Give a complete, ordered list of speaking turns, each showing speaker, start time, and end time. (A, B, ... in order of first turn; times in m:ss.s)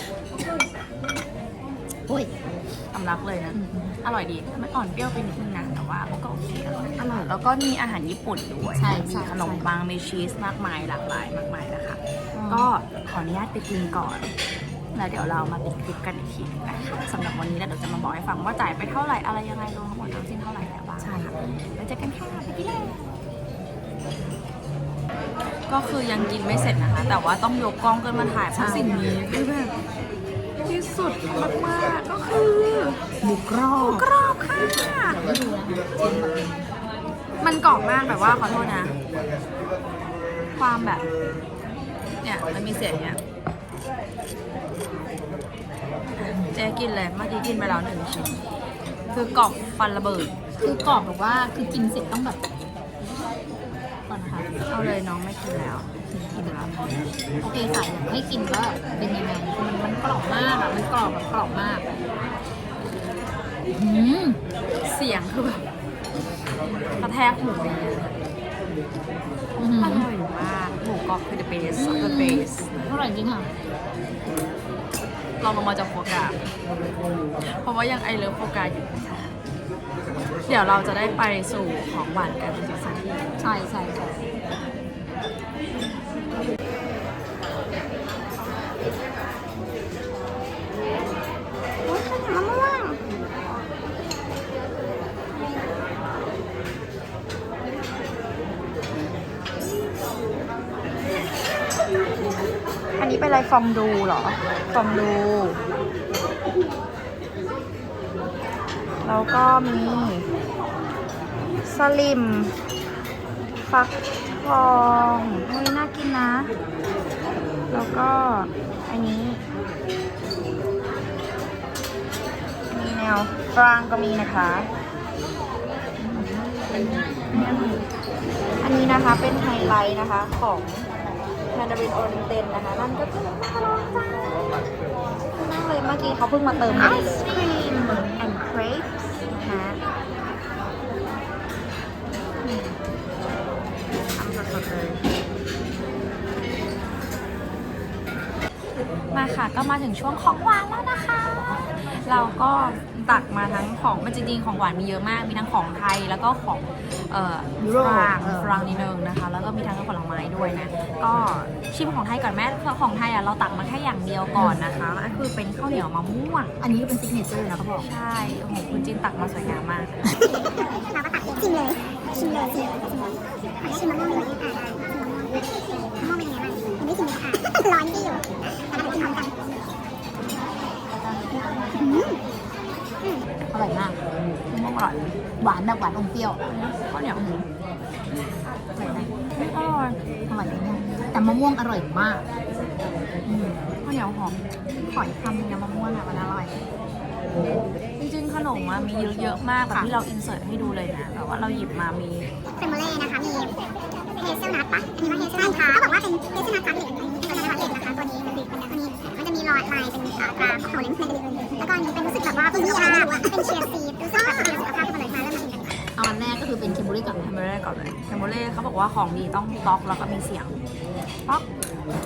0:02.1-0:02.3 A
0:02.9-0:14.3 B
0:03.5-0:04.0 A
0:08.8-0:09.7 A
0:12.4-0:12.7 A
0:14.9-0:23.0 B
0:21.0-0:21.3 A
0:25.7-0:29.7 B
0:28.5-0:29.0 A
0:30.7-0:33.0 B
0:33.2-0:34.1 A
0:33.8-0:35.2 B
0:35.0-0:36.7 A
0:37.4-0:39.0 B
0:40.5-0:41.1 B
0:42.2-0:43.2 B
0:46.2-0:48.5 B
0:49.1-0:50.3 B
0:50.6-0:52.4 A
0:54.1-0:54.5 A
0:54.7-0:56.9 B
0:56.1-0:56.7 A
0:57.4-1:02.0 A
1:03.7-1:04.4 A
1:04.8-1:05.6 B
1:07.0-1:08.2 B
1:09.6-1:10.1 A
1:09.8-1:12.9 B
1:11.8-1:13.5 A
1:15.4-1:16.4 B
1:17.4-1:19.4 B
1:20.5-1:23.4 B
1:23.4-1:24.2 A
1:31.8-1:33.0 B
1:43.0-1:45.6 B
1:49.0-1:50.3 B
1:51.6-1:52.6 B
1:53.7-1:56.6 B
1:57.7-1:59.4 B
2:02.7-2:04.7 B
2:06.0-2:06.3 A
2:07.3-2:07.8 B
2:07.3-2:07.7 A
2:08.6-2:10.9 B
2:11.5-2:14.4 B
2:15.3-2:19.8 B
2:16.8-2:17.0 A
2:22.4-2:22.8 B
2:24.2-2:25.0 B
2:29.1-2:46.5 B
2:37.6-2:38.8 A
2:44.3-2:44.6 A
2:46.6-2:47.9 A
2:47.8-2:50.0 B
2:50.4-2:55.4 C
2:56.0-2:59.3 C
3:01.0-3:01.7 B
3:01.7-3:02.2 C
3:03.5-3:04.0 A
3:04.5-3:05.2 B
3:05.4-3:06.5 A
3:06.5-3:07.2 B
3:07.2-3:07.5 A
3:08.8-3:09.2 A
3:08.9-3:10.0 B
3:10.3-3:12.2 A
3:13.3-3:14.4 B
3:14.9-3:16.6 A
3:18.0-3:22.3 B
3:19.7-3:20.0 A
3:22.6-3:23.5 C
3:24.2-3:35.8 C
3:36.0-3:37.3 A
3:37.2-3:40.6 B